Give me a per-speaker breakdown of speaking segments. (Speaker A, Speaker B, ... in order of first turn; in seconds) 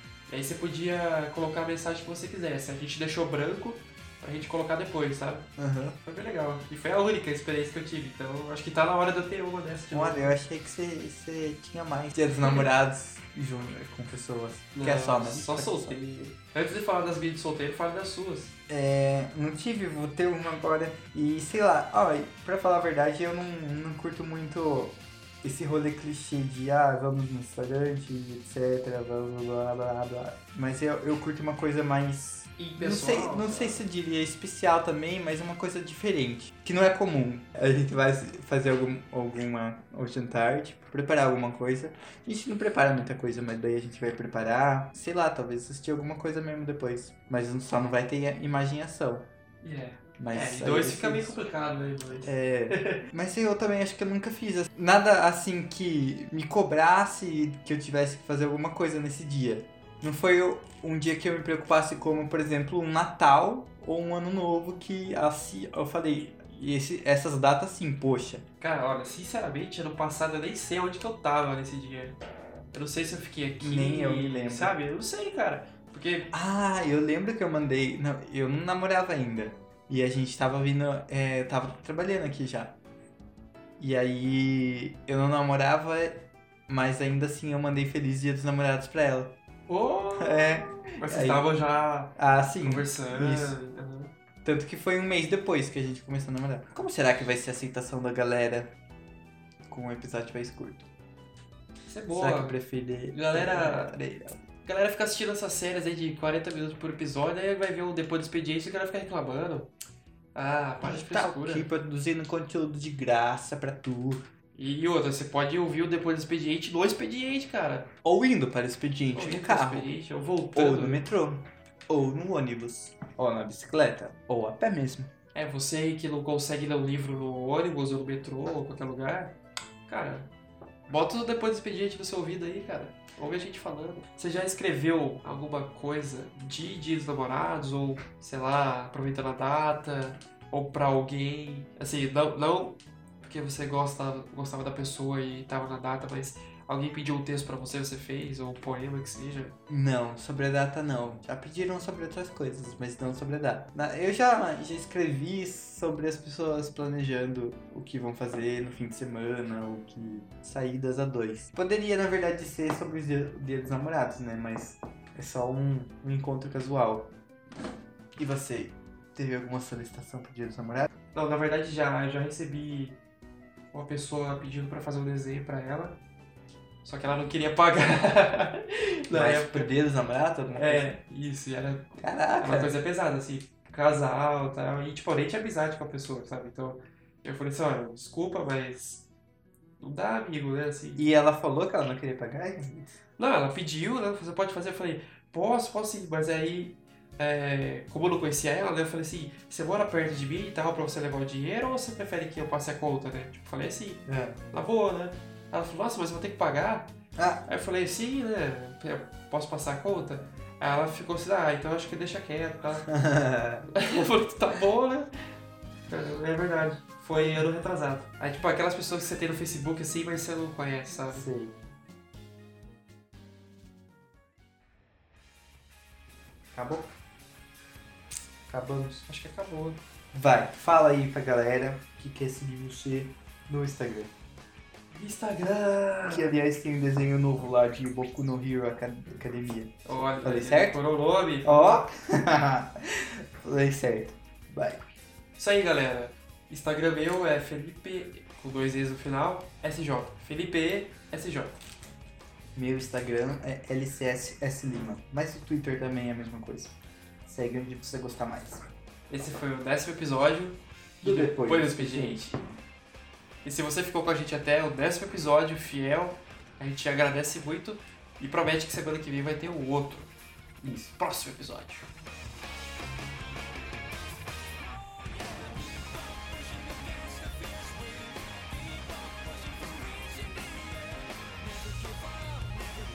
Speaker A: 0.3-5.5, 6.0-10.3, 14.8-18.5, 32.6-33.8, 49.6-53.0, 68.6-72.2, 72.7-76.3, 89.7-94.1, 101.9-102.6, 103.1-104.0, 104.6-109.7, 110.3-111.7, 114.5-117.9, 119.2-121.0, 125.3-129.3, 129.9-130.3, 130.9-149.6, 171.1-173.0, 173.7-176.0, 176.8-179.7, 180.6-189.1, 189.8-191.1, 193.2-206.9, 207.5-212.9, 213.8-215.1, 215.9-221.3, 229.1-229.8, 234.9-236.3, 239.9-241.9, 245.4-251.6, 259.1-262.4, 263.4-270.1, 270.6-271.9, 276.7-278.1, 279.4-280.5
Speaker B: 5.6-6.0, 9.9-16.0, 18.7-49.3, 50.2-51.4, 52.2-68.4, 73.6-74.8, 76.3-82.8, 83.8-89.3, 90.2-91.5, 92.2-93.6, 94.5-98.7, 99.7-100.9, 102.1-104.4, 110.8-114.2, 118.0-119.9, 120.5-125.1, 149.7-167.1, 168.2-170.9, 179.1-181.0, 182.0-182.8, 191.0-192.8, 204.1-204.4, 207.2-207.5, 212.9-213.8, 217.1-217.5, 221.1-221.6, 226.5-226.9, 228.5-229.1, 230.1-234.1, 236.1-240.8, 241.4-244.8, 252.6-258.7, 261.0-262.4